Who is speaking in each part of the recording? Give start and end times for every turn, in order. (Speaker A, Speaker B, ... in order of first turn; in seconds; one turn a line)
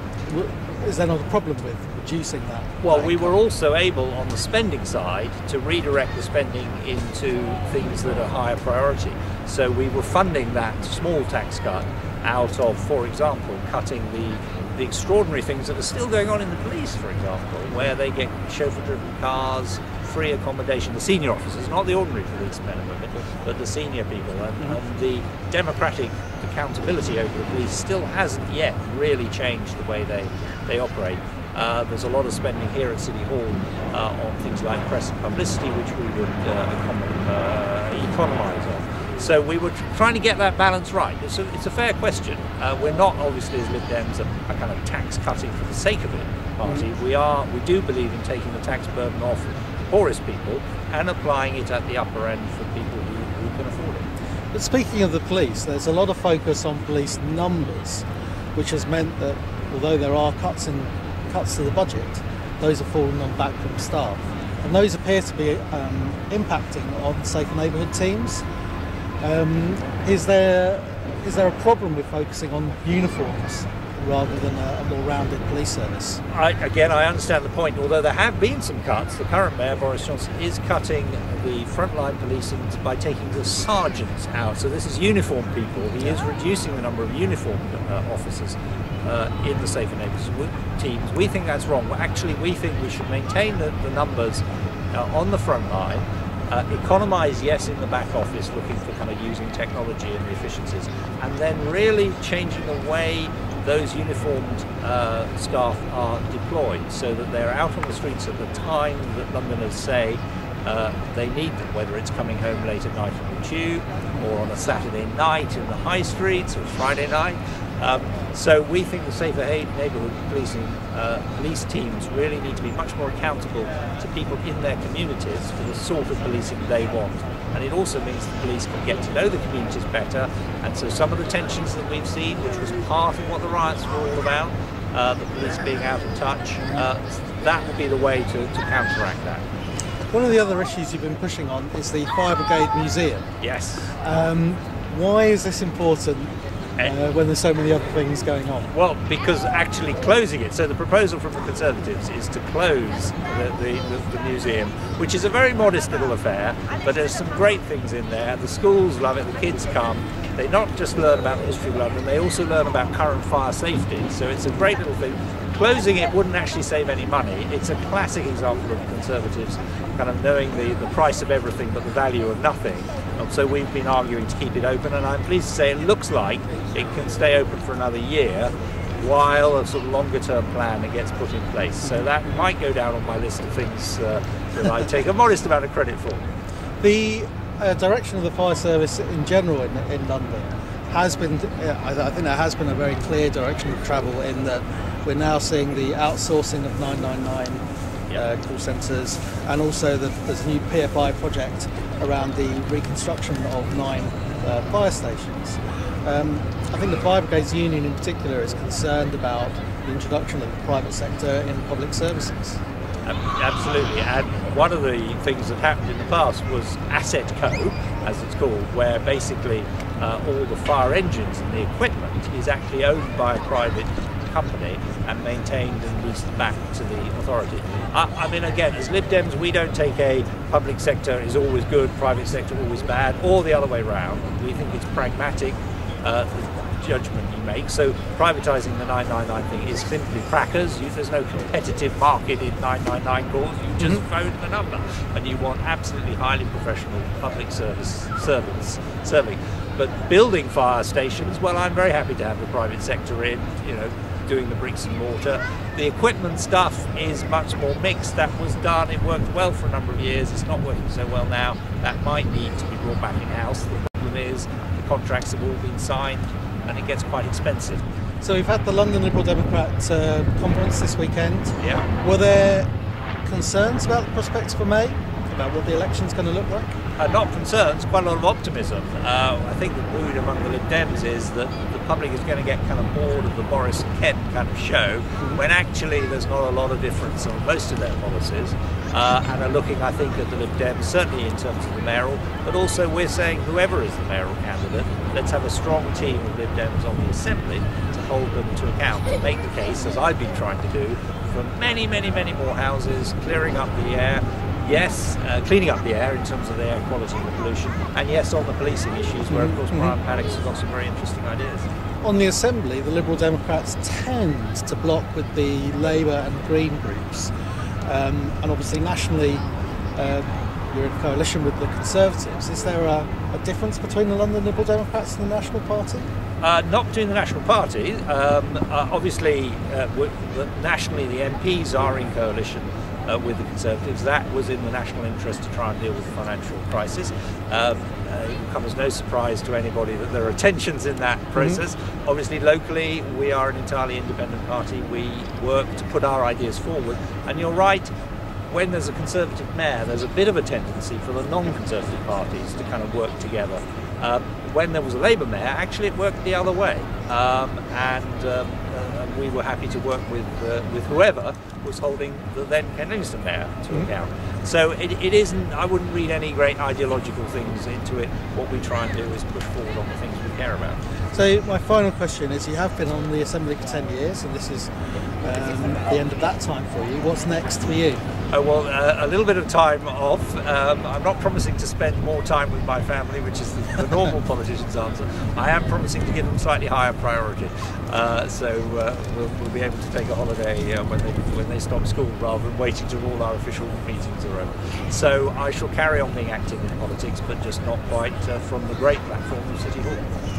Speaker A: 0.3-3.3
Speaker B: 2.8-54.1
Speaker A: 54.5-68.4
Speaker A: 69.2-76.2
Speaker B: 76.3-139.4
Speaker A: 140.1-143.3
Speaker B: 143.4-144.0
Speaker A: 144.0-148.7
Speaker B: 148.7-186.2
Speaker A: 186.8-212.6
Speaker B: 213.1-267.8
Speaker A: 268.2-272.7
Speaker B: 271.6-271.9
Speaker A: 273.2-276.8
Speaker B: 277.0-311.7
Speaker A: 309.3-309.9
Speaker A: 312.0-317.3
Speaker A: 317.9-319.4
Speaker A: 320.0-326.1
Speaker B: 326.4-347.9
Speaker B: 348.5-370.8
Speaker A: 371.1-374.7
Speaker A: 375.2-378.0
Speaker B: 378.3-400.0